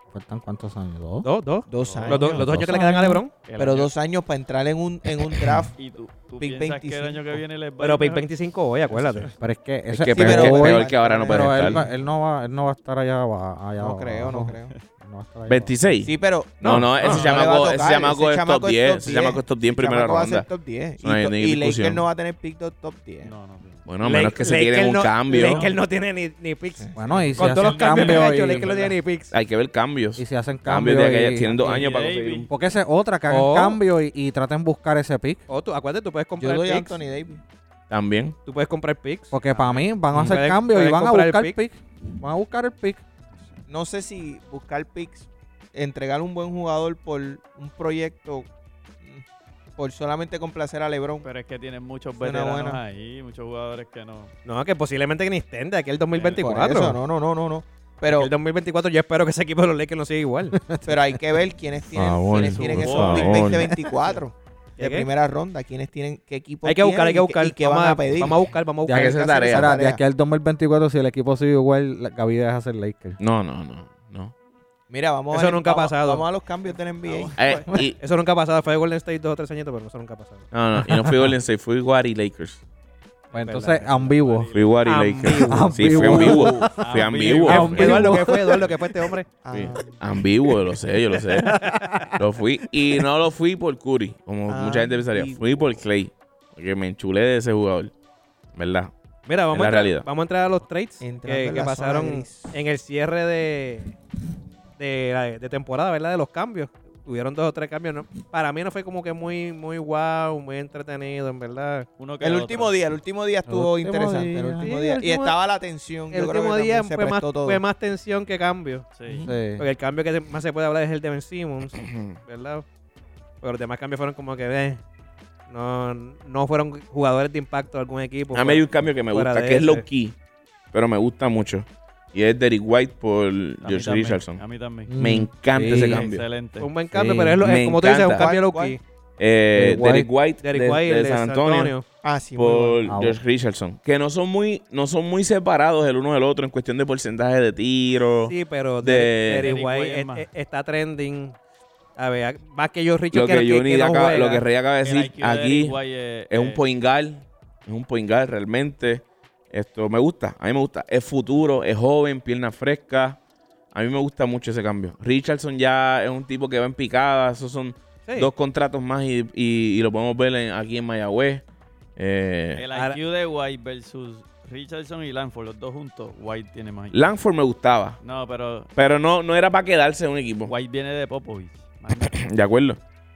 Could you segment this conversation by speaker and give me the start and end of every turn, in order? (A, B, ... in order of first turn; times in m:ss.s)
0:00.1-0:01.3 A
0:01.2-0:03.3 B
0:01.7-0:02.5 C
0:01.8-0:02.5 D
0:02.4-0:03.2 A
0:03.4-0:03.9 D
0:03.6-0:05.8 C
0:05.8-0:08.3 D
0:06.4-0:07.4 C
0:07.8-0:09.4 B
0:09.0-0:09.3 D
0:09.4-0:16.0 A
0:09.9-0:11.8 E
0:10.1-0:11.9 C
0:13.8-0:14.7 C
0:15.5-0:20.5 E
0:16.0-0:23.3 C
0:16.6-0:16.9 B
0:17.0-0:17.4 D
0:21.0-0:22.1 E
0:23.2-0:23.8 D
0:23.8-0:25.7 E
0:24.0-0:29.3 B
0:25.3-0:25.8 D
0:26.8-0:27.3 C
0:27.0-0:28.7 A
0:27.4-0:29.0 D
0:29.3-0:32.5 E
0:30.2-0:31.8 A
0:31.6-0:32.5 D
0:32.5-0:35.4 A
0:33.3-0:33.8 B
0:35.5-0:37.0 B
0:36.4-0:37.4 C
0:37.9-0:38.4 E
0:38.5-0:39.4 B
0:39.3-0:43.0 A
0:39.5-0:39.8 D
0:40.1-0:41.6 B
0:43.7-0:48.5 C
0:49.8-0:51.3 C
0:51.2-0:54.3 D
0:52.2-0:52.8 C
0:54.4-0:57.0 B
0:56.2-0:56.4 D
0:56.4-0:58.3 C
0:58.1-1:00.6 B
1:00.5-1:01.2 A
1:00.8-1:10.0 C
1:02.0-1:03.8 E
1:02.4-1:03.7 D
1:04.8-1:05.1 B
1:06.6-1:09.2 B
1:08.9-1:13.2 A
1:08.9-1:09.8 E
1:13.2-1:14.3 E
1:14.9-1:17.4 C
1:15.3-1:16.3 B
1:16.7-1:17.6 D
1:17.4-1:18.0 E
1:17.9-1:20.5 B
1:20.5-1:22.6 E
1:23.3-1:25.4 D
1:23.3-1:24.5 A
1:23.4-1:24.1 B
1:24.5-1:28.1 E
1:24.8-1:26.6 B
1:25.4-1:27.0 A
1:26.1-1:28.0 D
1:26.3-1:26.7 C
1:27.5-1:29.3 B
1:27.5-1:28.7 A
1:29.4-1:30.0 C
1:29.5-1:37.9 E
1:31.3-1:32.2 B
1:34.5-1:35.8 C
1:38.5-1:38.9 E
1:39.3-1:44.0 B
1:39.5-1:40.1 E
1:41.0-1:42.5 C
1:44.8-1:51.9 B
1:52.0-1:52.8 D
1:52.2-1:57.6 C
1:53.5-1:55.0 A
1:54.6-1:55.4 B
1:56.1-1:58.9 B
1:59.0-1:59.3 D
1:59.1-1:59.3 C
1:59.2-1:59.6 A
1:59.6-2:02.6 B
2:01.8-2:02.2 E
2:03.4-2:04.8 B
2:05.5-2:09.9 B
2:08.3-2:10.2 E
2:10.7-2:14.4 E
2:13.6-2:15.0 D
2:14.9-2:16.1 A
2:15.0-2:16.2 E
2:15.6-2:16.7 D
2:16.6-2:18.8 B
2:16.9-2:17.4 A
2:17.4-2:18.3 E
2:18.0-2:18.8 C
2:19.2-2:21.8 E
2:19.5-2:20.1 A
2:20.4-2:21.8 B
2:22.0-2:22.9 C
2:22.4-2:29.5 E
2:22.9-2:23.2 A
2:28.2-2:31.4 B
2:29.4-2:30.3 D
2:32.0-2:34.4 B
2:33.1-2:35.8 E
2:34.8-2:36.6 D
2:36.3-2:43.2 E
2:43.7-2:51.4 E
2:48.1-2:48.3 B
2:52.0-2:52.7 E
2:52.6-2:57.1 D
2:52.7-2:53.0 B
2:56.9-2:58.0 E
2:58.0-2:58.7 D
2:58.8-3:00.5 E
3:00.5-3:02.3 D
3:02.0-3:02.8 E